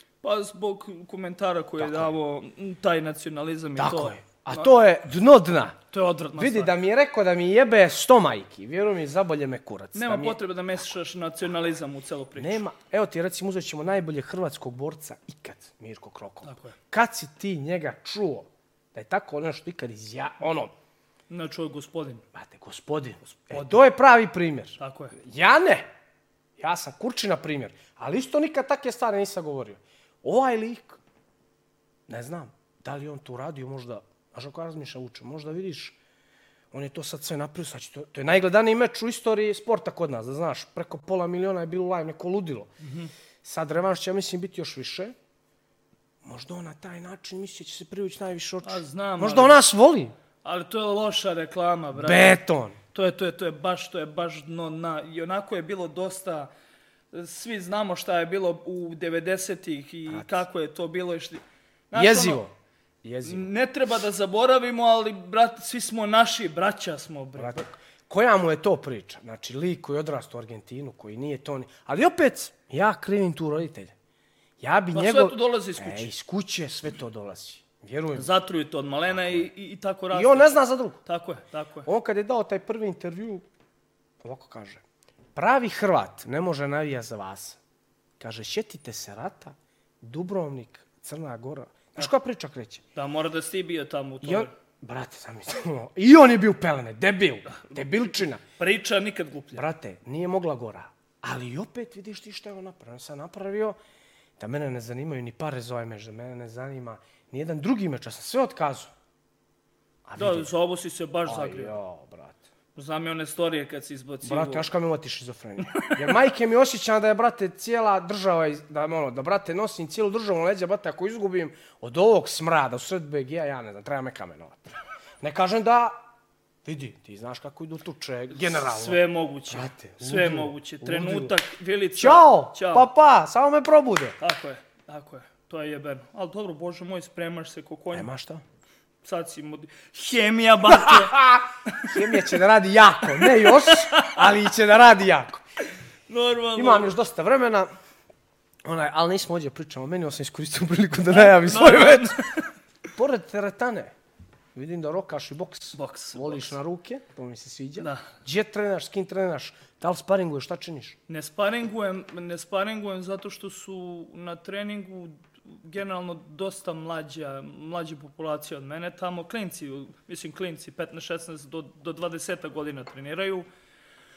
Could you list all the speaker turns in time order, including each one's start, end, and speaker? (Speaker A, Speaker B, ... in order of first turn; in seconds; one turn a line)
Speaker A: 0.2-4.7
Speaker B: 1.8-2.1
Speaker B: 3.8-5.8
Speaker A: 5.9-6.7
Speaker B: 6.3-10.4
Speaker A: 9.9-12.6
Speaker B: 12.4-20.7
Speaker A: 16.4-16.8
Speaker A: 21.3-22.2
Speaker B: 22.4-25.9
Speaker A: 23.3-23.9
Speaker A: 24.8-25.2
Speaker B: 26.6-31.0
Speaker B: 32.1-36.0
Speaker B: 36.7-42.7
Speaker A: 42.8-43.1
Speaker B: 43.4-45.1
Speaker B: 46.2-50.1
Speaker A: 48.6-49.6
Speaker A: 50.4-52.4
Speaker B: 52.0-52.8
Speaker A: 52.9-56.5
Speaker A: 57.1-62.4
Speaker B: 62.0-62.5
Speaker B: 63.0-63.5
Speaker A: 63.2-67.7
Speaker B: 67.4-73.9
Speaker B: 74.6-78.3
Speaker A: 74.9-76.1
Speaker A: 78.2-81.9
Speaker B: 79.1-79.5
Speaker B: 80.1-81.0
Speaker B: 81.9-83.4
Speaker B: 84.2-84.8
Speaker B: 85.3-87.6
Speaker B: 88.2-92.8
Speaker A: 93.0-94.5
Speaker B: 94.2-98.4
Speaker A: 97.5-98.0
Speaker A: 98.6-99.6
Speaker B: 99.5-103.8
Speaker B: 104.4-108.9
Speaker B: 110.1-110.5
Speaker A: 110.2-111.8
Speaker B: 111.3-112.4
Speaker A: 112.8-114.7
Speaker B: 114.2-126.0
Speaker A: 115.7-116.0
Speaker B: 126.6-131.4
Speaker A: 128.4-132.9
Speaker B: 131.9-134.2
Speaker A: 134.2-138.1
Speaker B: 137.9-138.4
Speaker A: 139.0-142.1
Speaker B: 140.7-145.4
Speaker A: 143.2-144.2
Speaker A: 146.1-146.9
Speaker B: 146.6-147.7
Speaker B: 148.7-152.2
Speaker A: 151.1-152.5
Speaker B: 152.9-153.9
Speaker B: 154.6-161.0
Speaker A: 155.7-156.5
Speaker A: 157.8-158.1
Speaker A: 161.1-173.5